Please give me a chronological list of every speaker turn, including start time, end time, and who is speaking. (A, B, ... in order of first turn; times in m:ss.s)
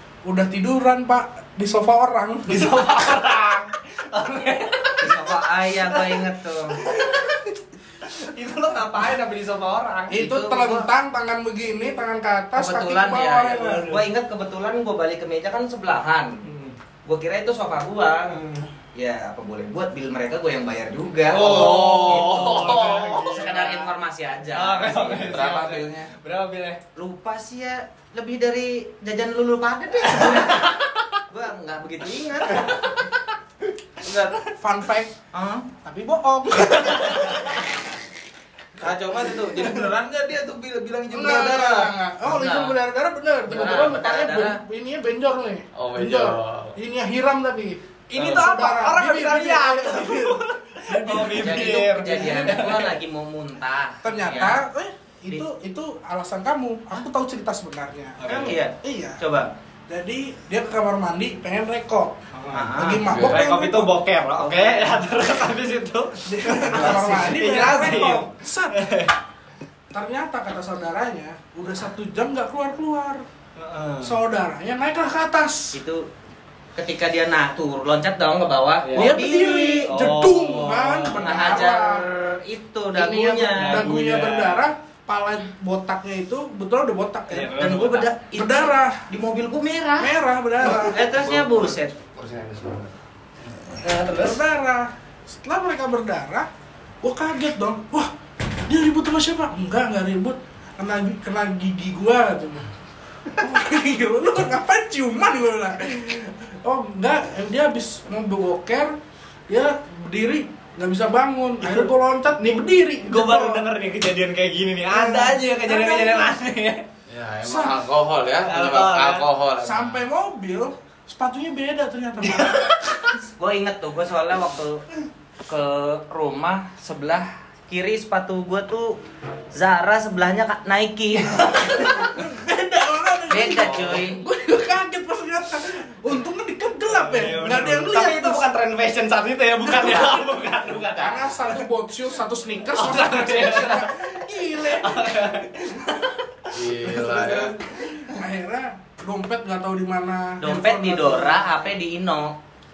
0:00.2-0:02.8 A
0:02.4-0:10.2 B
0:05.0-0:06.8 C
0:10.1-0:10.9 C
0:10.1-0:13.9 A
0:12.6-0:16.4 C
0:13.6-0:14.0 B
0:16.4-0:16.8 B
0:17.0-0:25.4 C
0:21.3-0:23.9 B
0:21.4-0:22.5 D
0:24.5-0:26.8 B
0:25.3-0:26.1 E
0:25.3-0:25.7 D
0:26.9-0:30.8 C
0:30.1-0:30.7 B
0:31.3-0:33.0 C
0:34.6-0:35.1 A
0:35.3-0:35.7 C
0:35.8-0:37.6 A
0:36.5-0:37.5 B
0:38.8-0:41.9 E
0:41.1-0:52.9 A
0:42.2-0:42.8 C
0:43.5-0:44.6 C
0:45.7-0:46.8 D
0:48.1-0:53.0 B
0:51.1-0:54.6 C
0:54.0-0:58.2 A
0:58.2-0:58.6 B
0:58.2-0:59.5 C
0:58.8-0:59.2 A
0:59.9-1:02.2 A
1:02.3-1:09.1 B
1:02.5-1:03.1 C
1:02.7-1:04.0 A
1:03.1-1:03.4 D
1:04.4-1:05.0 C
1:06.2-1:08.8 A
1:09.9-1:13.2 A
1:13.6-1:14.2 B
1:14.0-1:15.8 A
1:15.7-1:16.1 C
1:16.8-1:19.9 C
1:18.8-1:19.2 B
1:19.0-1:22.0 A
1:19.8-1:21.6 B
1:21.2-1:23.9 C
1:22.9-1:27.7 A
1:23.6-1:24.7 B
1:27.3-1:28.1 B
1:27.6-1:31.9 C
1:28.3-1:29.0 A
1:30.0-1:31.0 A
1:30.6-1:32.9 E
1:33.7-1:34.4 B
1:34.1-1:36.5 A
1:37.0-1:38.1 A
1:38.7-1:42.7 A
1:43.4-1:49.0 A
1:49.5-1:53.6 A
1:51.6-1:56.8 B
1:54.9-1:56.3 A
1:57.1-2:00.0 D
1:57.4-1:57.8 A
1:58.4-1:59.3 B
1:59.6-2:02.7 A
2:02.2-2:03.1 B
2:03.4-2:04.8 C
2:05.5-2:09.0 C
2:09.5-2:12.2 C
2:11.7-2:18.4 A
2:13.3-2:14.2 C
2:16.8-2:21.6 B
2:19.6-2:20.3 A
2:20.9-2:25.1 A
2:22.7-2:28.1 B
2:26.5-2:27.6 D
2:28.1-2:31.4 A
2:30.4-2:32.4 C